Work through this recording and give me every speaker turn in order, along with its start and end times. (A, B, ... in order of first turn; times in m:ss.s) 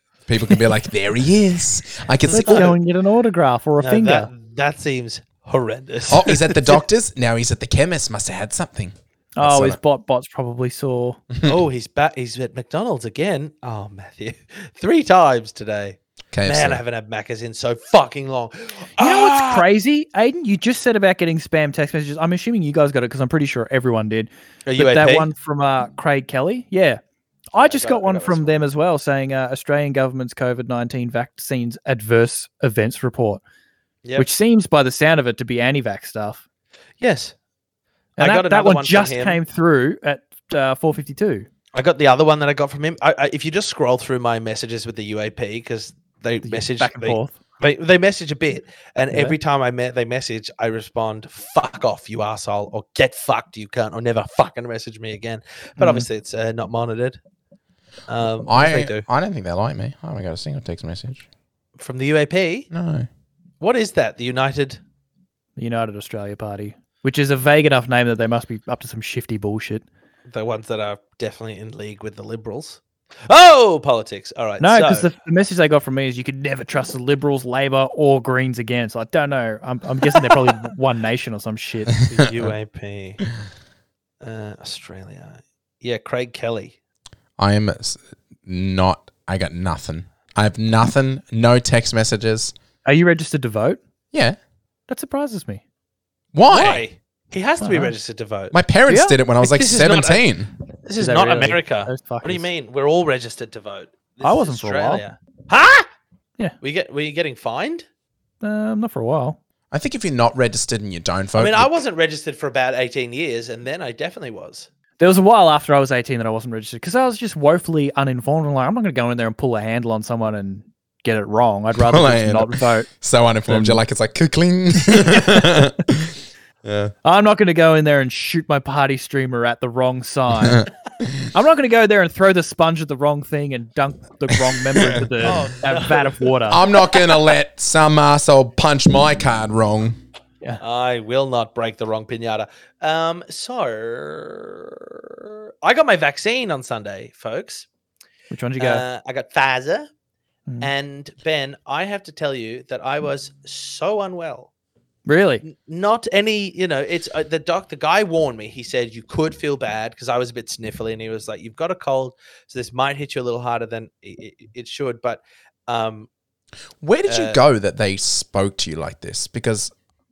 0:00.3-0:02.7 A
0:02.3-0:02.7 B
0:02.3-0:04.3 C
0:03.8-0:06.8 B
0:06.1-0:09.8 A
0:09.4-0:11.2 C
0:11.3-0:11.6 A
0:11.4-0:19.6 B
0:16.3-0:16.8 A
0:19.0-0:27.0 C
0:24.6-0:25.3 B
0:27.5-0:33.4 C
0:27.6-0:28.6 B
0:34.0-0:34.3 B
0:34.2-0:36.4 C
0:37.0-0:37.3 B
0:38.2-0:39.4 B
0:38.2-0:41.5 C
0:41.7-0:57.2 B
0:46.4-0:47.4 C
0:49.1-0:49.4 C
0:55.8-0:56.0 C
0:58.1-0:59.0 B
0:58.4-1:01.2 A
1:01.8-1:02.7 B
1:02.7-1:03.1 A
1:03.6-1:04.8 B
1:05.6-1:09.8 C
1:10.3-1:15.1 B
1:14.6-1:22.0 C
1:22.0-1:23.2 B
1:24.2-1:26.8 B
1:27.4-1:32.5 A
1:32.8-1:33.8 C
1:34.9-1:35.6 C
1:36.3-1:36.8 A
1:36.5-1:38.6 B
1:37.6-1:37.9 C
1:38.5-1:40.5 A
1:38.9-1:39.2 C
1:39.4-1:40.2 B
1:40.8-1:45.9 B
1:41.0-1:42.4 C
1:44.2-1:45.0 C
1:46.6-1:47.8 B
1:48.4-1:49.4 C
1:49.7-1:51.7 A
1:51.3-1:54.7 B
1:55.0-2:02.9 C
2:01.7-2:06.9 A
2:03.4-2:03.8 C
2:04.9-2:05.5 C
2:07.0-2:10.7 C
2:10.4-2:11.2 A
2:11.2-2:16.6 C
2:14.3-2:15.3 A
2:15.2-2:16.7 B
2:16.5-2:20.0 A
2:20.6-2:27.7 B
2:28.3-2:28.8 C
2:28.6-2:29.9 B
2:30.6-2:34.5 B
2:35.1-2:35.4 C
2:35.4-2:46.1 B
2:46.8-2:49.7 A
2:47.1-2:47.4 B